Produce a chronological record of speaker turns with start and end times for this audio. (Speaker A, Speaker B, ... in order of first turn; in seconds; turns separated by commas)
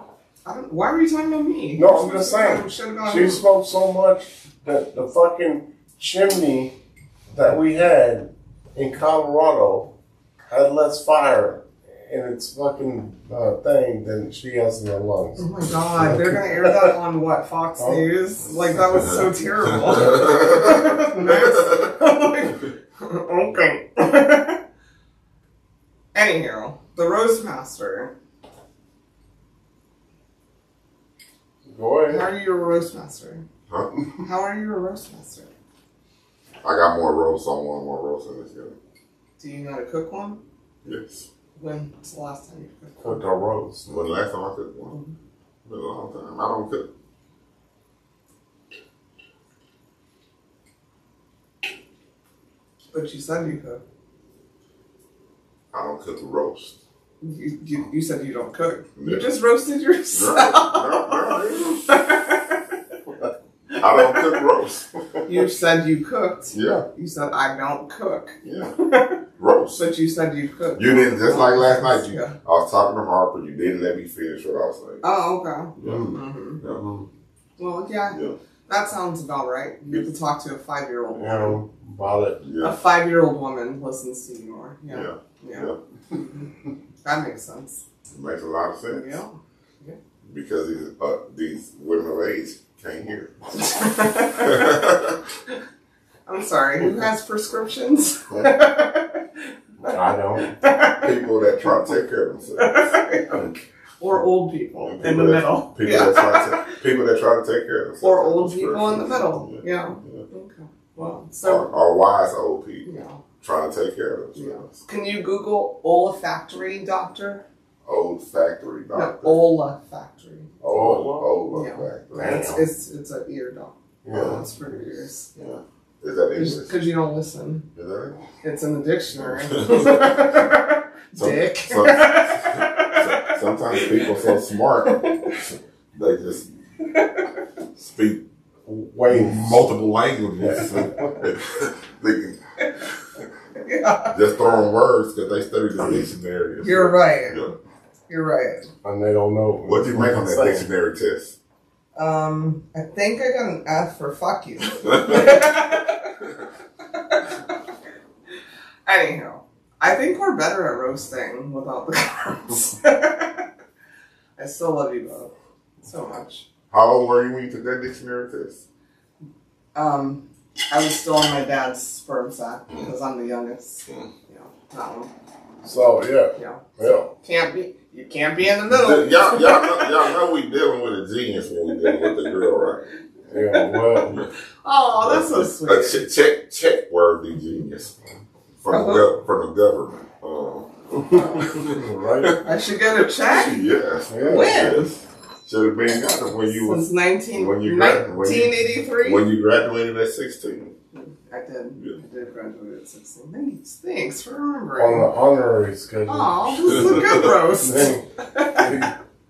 Speaker A: 0.5-3.4, Speaker B: 1.8-6.8, Speaker B: 7.3-9.9, Speaker B: 10.5-17.0, Speaker A: 15.4-24.6, Speaker B: 17.8-18.1, Speaker C: 20.2-20.6, Speaker A: 26.1-28.1, Speaker B: 31.7-32.3, Speaker A: 32.1-33.4, Speaker C: 33.7-33.9, Speaker A: 34.2-35.5, Speaker C: 36.6-38.8, Speaker A: 39.4-40.4, Speaker C: 40.9-41.3, Speaker A: 41.6-43.2, Speaker B: 43.0-43.9, Speaker C: 43.9-45.0, Speaker C: 45.6-46.9, Speaker A: 52.9-53.8, Speaker C: 55.7-56.8, Speaker A: 57.2-62.6, Speaker C: 59.0-59.3, Speaker C: 60.1-61.9, Speaker A: 63.7-64.3, Speaker C: 63.8-65.2, Speaker A: 65.3-69.2, Speaker C: 66.5-66.9, Speaker C: 68.4-68.7, Speaker C: 69.4-69.8, Speaker A: 69.7-72.3, Speaker C: 70.8-75.0, Speaker A: 75.0-76.6, Speaker C: 75.8-76.8, Speaker B: 75.8-77.1, Speaker A: 77.6-78.2, Speaker A: 78.7-81.6, Speaker B: 81.1-82.4, Speaker C: 82.4-82.8, Speaker A: 82.6-86.5, Speaker C: 84.9-85.8, Speaker A: 87.0-87.8, Speaker C: 88.1-89.2, Speaker A: 88.9-90.0, Speaker C: 90.3-93.3, Speaker A: 93.5-94.7, Speaker C: 94.3-95.2, Speaker A: 96.3-100.0, Speaker B: 99.8-100.6, Speaker A: 100.6-101.2, Speaker C: 101.0-103.6, Speaker A: 102.6-103.4, Speaker A: 104.0-106.7, Speaker C: 104.8-110.2, Speaker A: 108.0-111.7, Speaker C: 111.4-112.9, Speaker A: 112.8-113.2, Speaker C: 113.4-114.8, Speaker A: 114.4-117.4, Speaker C: 117.8-119.4, Speaker A: 118.9-120.5, Speaker B: 120.6-121.3, Speaker C: 120.6-122.5, Speaker A: 121.5-125.5, Speaker B: 122.1-122.7, Speaker B: 124.0-124.5, Speaker C: 124.1-124.4, Speaker C: 125.4-126.9, Speaker A: 126.3-127.7, Speaker C: 127.8-128.2, Speaker A: 128.4-134.3, Speaker C: 129.2-130.2, Speaker C: 131.2-135.0, Speaker A: 134.8-135.4, Speaker C: 135.9-136.5, Speaker A: 136.8-137.3, Speaker C: 137.8-138.2, Speaker B: 138.7-139.7, Speaker C: 139.1-142.4, Speaker B: 140.4-141.2, Speaker A: 143.6-144.2, Speaker C: 144.1-147.5, Speaker A: 146.6-147.5, Speaker A: 148.1-148.7, Speaker B: 148.8-150.7, Speaker C: 149.6-151.4, Speaker A: 151.9-156.1, Speaker C: 154.9-155.3, Speaker A: 157.0-157.3, Speaker A: 158.9-163.5, Speaker A: 164.4-165.3, Speaker A: 165.8-166.5, Speaker C: 166.7-168.6, Speaker A: 169.8-175.1, Speaker B: 175.6-177.1, Speaker A: 176.4-179.9, Speaker C: 178.7-182.8, Speaker A: 181.8-182.2, Speaker B: 183.3-184.2, Speaker A: 183.5-184.1, Speaker A: 184.6-186.0, Speaker C: 185.0-187.9, Speaker C: 188.6-190.7, Speaker A: 188.7-189.1, Speaker B: 190.9-192.4, Speaker A: 191.1-191.6, Speaker C: 191.4-192.4, Speaker A: 192.4-193.6, Speaker C: 193.2-200.7, Speaker B: 194.1-194.8, Speaker A: 194.2-194.9, Speaker A: 196.5-199.3, Speaker A: 200.9-205.1, Speaker C: 201.8-202.0, Speaker B: 204.8-208.1, Speaker A: 206.1-208.8, Speaker B: 208.6-208.9